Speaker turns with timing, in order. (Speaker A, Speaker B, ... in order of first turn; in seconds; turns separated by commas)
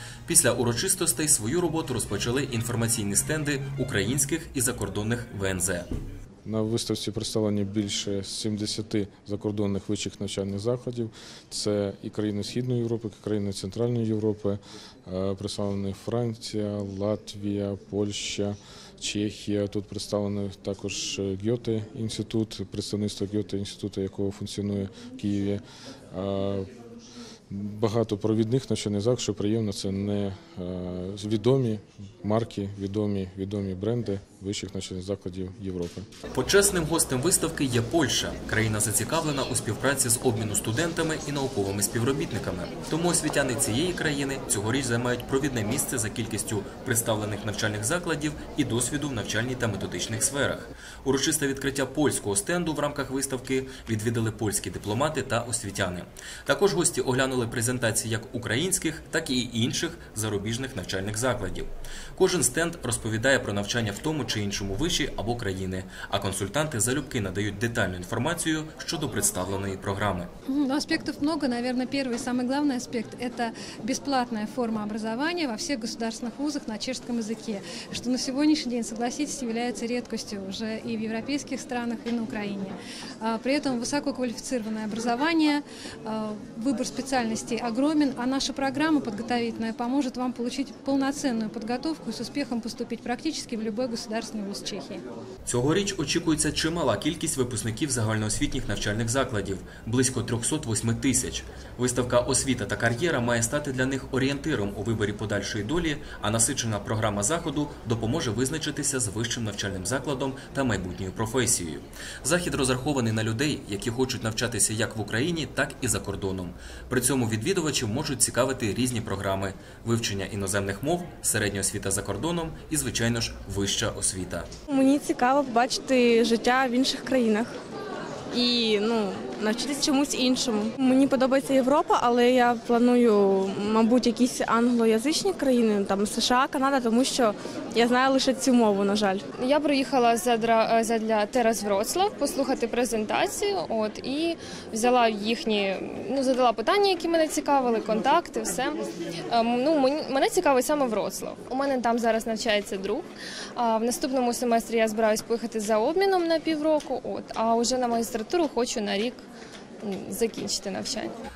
Speaker A: 0.3-5.9, Speaker B: 6.4-26.7, Speaker B: 27.5-36.0, Speaker A: 36.3-70.3, Speaker C: 70.5-95.0, Speaker A: 95.5-124.5, Speaker D: 124.7-127.5, Speaker D: 128.3-139.2, Speaker E: 139.4-148.8, Speaker E: 149.3-159.2, Speaker E: 159.8-161.1